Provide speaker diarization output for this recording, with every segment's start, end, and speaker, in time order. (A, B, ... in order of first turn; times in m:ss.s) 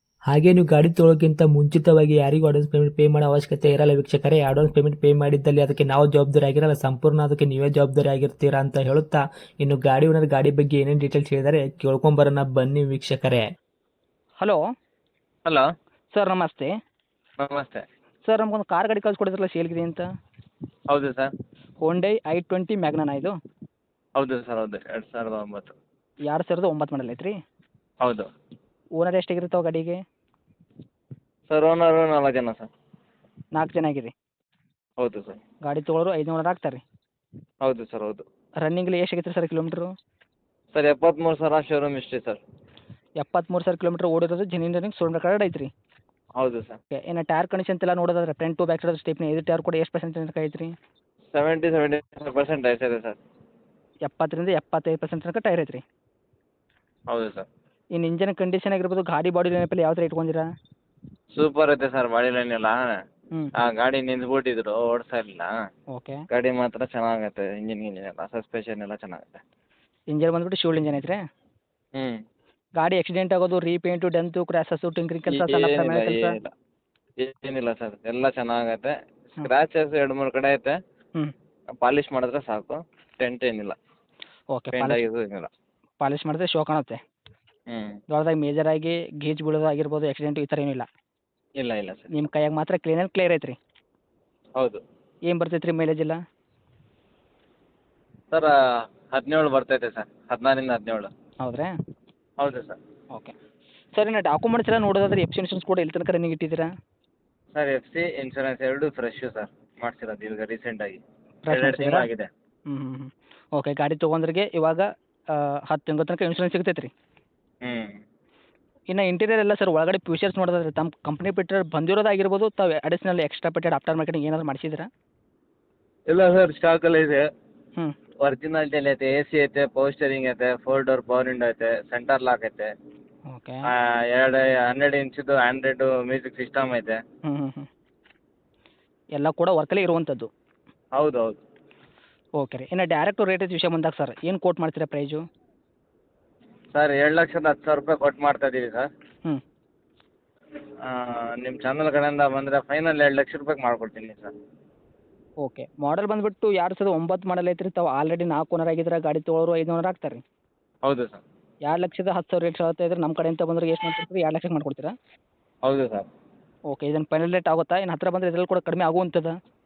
0:00.3-0:13.4 A
0:16.1-0:16.7 B
0:17.4-0:17.8 C
0:18.2-0:20.0 B
0:20.9-0:21.3 C
0:21.8-0:23.3 B
0:24.2-0:25.8 C
0:26.3-0:27.3 B
0:29.0-0:30.0 B
0:31.5-0:32.7 C
0:33.5-0:34.1 B
0:35.0-0:35.4 C
0:35.6-0:36.8 B
0:37.6-0:38.2 C
0:38.6-0:39.9 B
0:40.7-0:42.4 C
0:43.2-0:45.7 B
0:46.4-0:46.8 C
0:46.9-0:50.7 B
0:51.3-0:53.2 C
0:54.0-0:55.8 B
0:57.1-0:57.4 C
0:58.0-1:00.4 B
1:01.3-1:03.0 C
1:03.5-1:05.5 C
1:05.9-1:06.2 B
1:06.3-1:09.4 C
1:10.1-1:11.2 B
1:12.0-1:12.2 C
1:12.8-1:16.4 B
1:15.2-1:16.5 C
1:17.2-1:20.8 C
1:21.8-1:23.8 C
1:24.5-1:25.0 B
1:24.7-1:25.5 C
1:26.0-1:27.0 B
1:27.7-1:28.0 C
1:28.1-1:30.9 B
1:31.6-1:32.1 C
1:32.1-1:33.6 B
1:34.6-1:34.8 C
1:35.3-1:36.2 B
1:39.1-1:41.1 C
1:41.4-1:41.7 B
1:42.4-1:42.8 C
1:43.9-1:46.7 B
1:47.5-1:52.3 C
1:51.4-1:52.1 B
1:52.7-1:56.9 B
1:57.6-1:58.0 C
1:58.9-2:04.9 B
2:06.1-2:07.2 C
2:08.2-2:12.7 C
2:13.3-2:13.7 B
2:13.6-2:17.0 C
2:17.2-2:17.7 B
2:19.2-2:20.3 B
2:20.9-2:21.4 C
2:22.4-2:25.2 B
2:26.7-2:28.9 C
2:30.8-2:34.3 C
2:35.4-2:40.2 B
2:40.8-2:41.2 C
2:41.6-2:44.9 B
2:45.6-2:46.1 C
2:46.7-2:49.3 B